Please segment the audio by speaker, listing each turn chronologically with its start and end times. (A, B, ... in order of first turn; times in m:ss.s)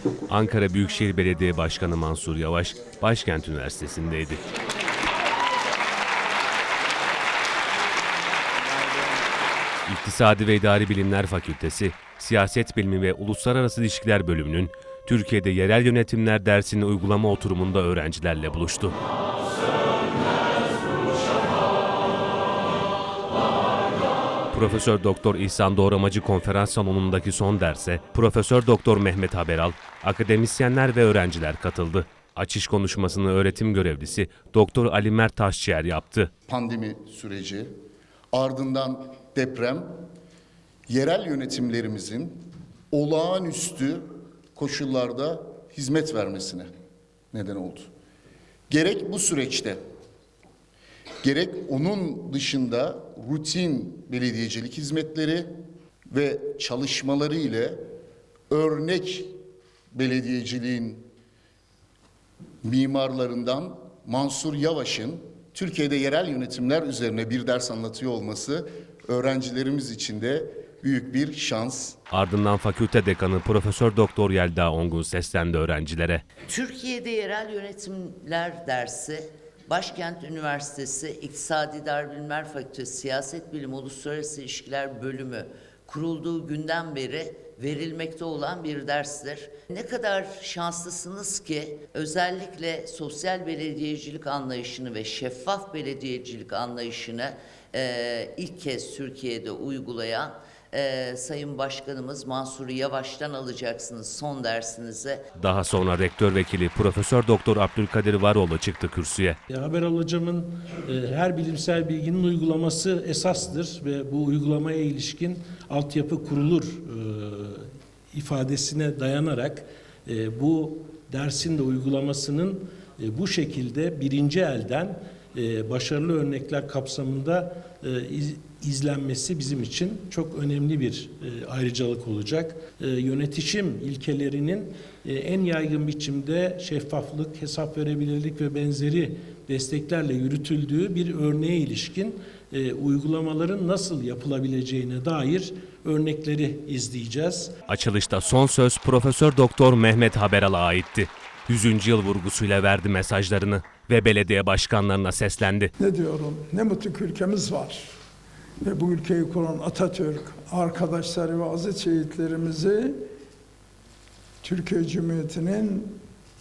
0:00.3-0:04.4 A
0:09.9-0:19.0 A
0:24.5-0:36.3 A
0:36.5-0:37.7 B
0:38.3-0:39.9 B
0:40.9-0:44.0 B
0:44.6-0:46.7 B
0:47.3-0:47.9 B
0:48.7-0:49.8 B
0:51.2-0:55.5 B
0:56.1-0:57.8 B
0:58.5-0:59.4 B
0:59.9-1:01.0 B
1:02.6-1:12.0 B
1:12.1-1:16.2 A
1:16.4-1:45.2 C
1:45.4-1:49.4 A
1:49.5-2:27.5 D
2:27.7-2:35.7 A
2:35.8-2:37.9 E
2:38.6-2:43.0 E
2:44.4-2:46.0 E